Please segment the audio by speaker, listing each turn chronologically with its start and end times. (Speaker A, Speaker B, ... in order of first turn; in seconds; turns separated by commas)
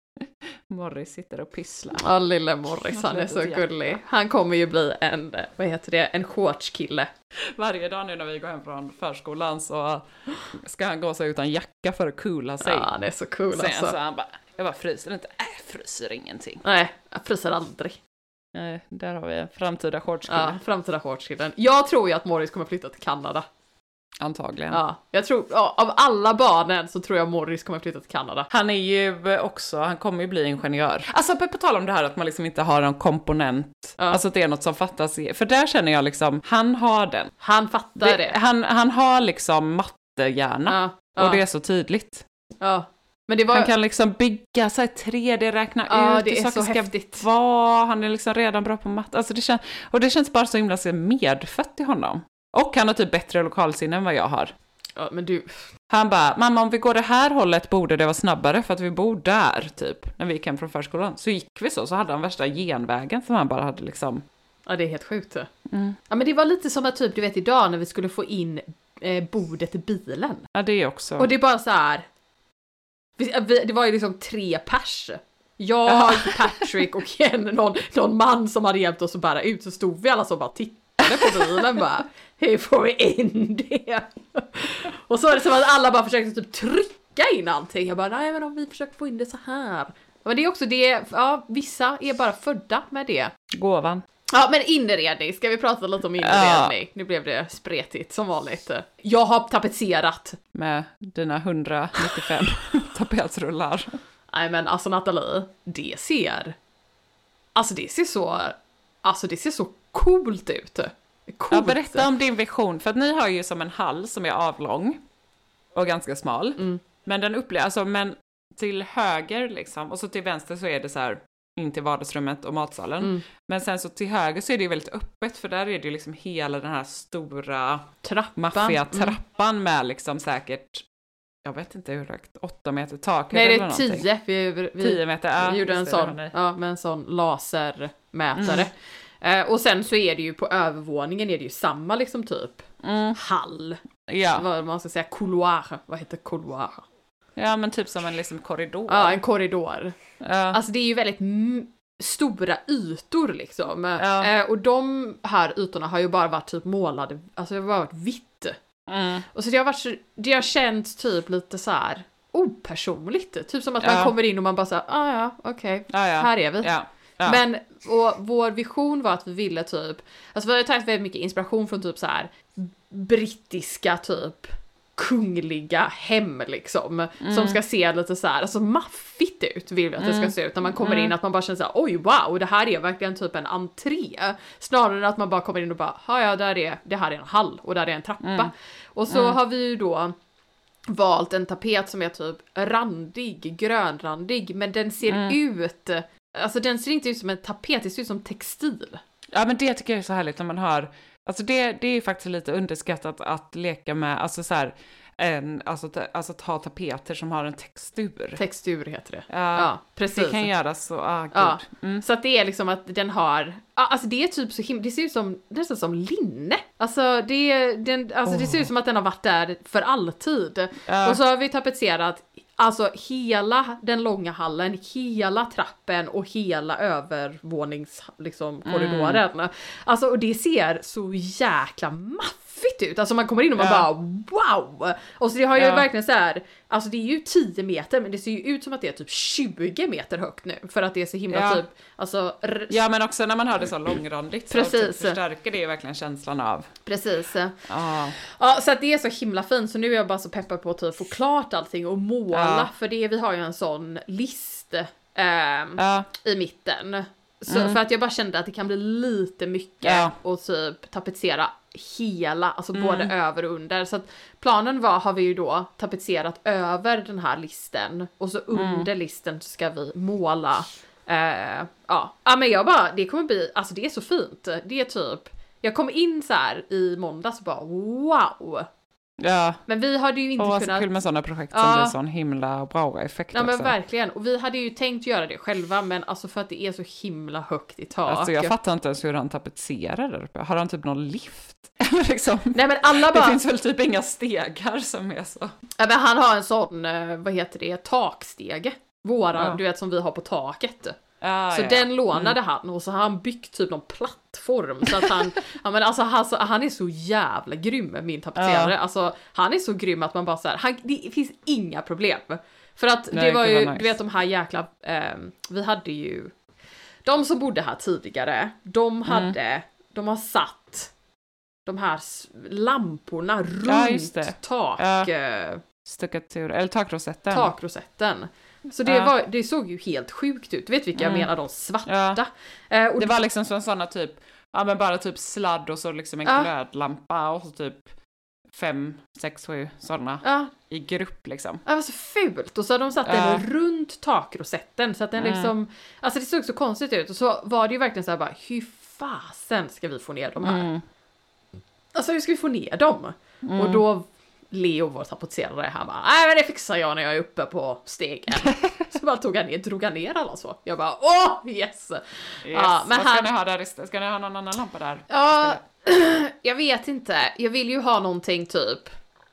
Speaker A: 0.2-2.0, Speaker B: 2.0-7.1, Speaker A: 2.9-4.0, Speaker A: 7.5-12.9, Speaker B: 12.6-13.9, Speaker A: 13.5-16.6, Speaker B: 16.6-18.0, Speaker A: 18.5-20.6, Speaker B: 20.3-23.4, Speaker A: 24.2-24.8, Speaker B: 24.7-28.5, Speaker A: 28.5-37.3, Speaker B: 37.4-38.4, Speaker A: 38.0-42.2, Speaker B: 40.7-41.4, Speaker B: 42.6-43.7, Speaker A: 43.5-54.5, Speaker B: 45.9-47.2, Speaker B: 55.0-55.5, Speaker A: 55.9-64.2, Speaker B: 64.7-65.5, Speaker A: 65.7-66.0, Speaker B: 66.1-70.5, Speaker A: 70.5-71.3, Speaker B: 71.2-72.0, Speaker B: 73.2-93.3, Speaker A: 75.9-76.8, Speaker A: 81.0-81.8, Speaker A: 93.5-94.0, Speaker B: 94.3-100.4, Speaker A: 96.2-96.8, Speaker A: 100.5-104.0, Speaker B: 104.3-106.5, Speaker B: 107.5-112.0, Speaker A: 111.5-115.0, Speaker A: 115.7-130.8, Speaker B: 128.0-129.2, Speaker A: 131.4-134.1, Speaker B: 133.3-143.8, Speaker A: 134.8-136.3, Speaker A: 138.4-138.7, Speaker A: 142.8-143.2, Speaker A: 144.1-144.4, Speaker B: 144.3-146.8, Speaker A: 147.3-149.2, Speaker B: 148.9-149.9, Speaker A: 150.2-150.6, Speaker B: 150.5-158.6, Speaker A: 154.0-154.3, Speaker A: 158.9-159.3, Speaker B: 159.3-166.7, Speaker A: 163.8-164.1, Speaker A: 165.9-167.4, Speaker B: 167.2-190.1, Speaker A: 177.2-177.6, Speaker A: 180.0-181.1, Speaker A: 188.2-188.5, Speaker A: 189.1-189.4, Speaker B: 190.9-199.0, Speaker A: 195.1-195.4, Speaker A: 199.3-208.4, Speaker B: 208.4-210.5, Speaker A: 209.3-212.0, Speaker B: 211.3-242.7, Speaker A: 218.3-218.7, Speaker A: 220.9-221.2, Speaker A: 228.7-229.2, Speaker A: 233.6-233.9, Speaker A: 235.6-235.9, Speaker A: 241.3-241.6, Speaker A: 242.7-246.7, Speaker B: 244.5-245.2, Speaker B: 246.8-247.7, Speaker A: 247.7-248.2, Speaker B: 248.2-278.7, Speaker A: 252.3-252.7, Speaker A: 255.8-256.1, Speaker A: 257.5-257.8, Speaker A: 259.8-260.1, Speaker A: 262.7-263.1, Speaker A: 268.5-268.9, Speaker A: 279.2-279.6, Speaker B: 279.7-280.9, Speaker A: 280.4-283.7, Speaker B: 281.5-281.9, Speaker B: 283.3-288.5, Speaker A: 288.1-295.5, Speaker B: 292.5-293.4, Speaker B: 295.8-301.0, Speaker A: 299.4-299.6, Speaker A: 301.2-302.4, Speaker B: 301.5-316.3, Speaker A: 308.4-308.7, Speaker A: 313.1-313.9, Speaker B: 317.0-320.9, Speaker A: 319.1-319.3, Speaker B: 321.6-325.6, Speaker A: 323.7-325.1, Speaker A: 325.8-327.5, Speaker B: 327.3-333.2, Speaker A: 328.9-329.1, Speaker A: 330.9-331.3, Speaker A: 331.9-332.2, Speaker A: 333.0-337.9, Speaker B: 336.2-336.5, Speaker A: 338.5-341.6, Speaker B: 340.2-340.5, Speaker B: 341.6-350.7, Speaker A: 343.0-343.4, Speaker A: 345.2-345.5, Speaker A: 350.4-350.8, Speaker B: 351.9-363.3, Speaker A: 353.4-353.8, Speaker A: 358.4-358.8, Speaker A: 362.5-365.6, Speaker B: 365.1-368.9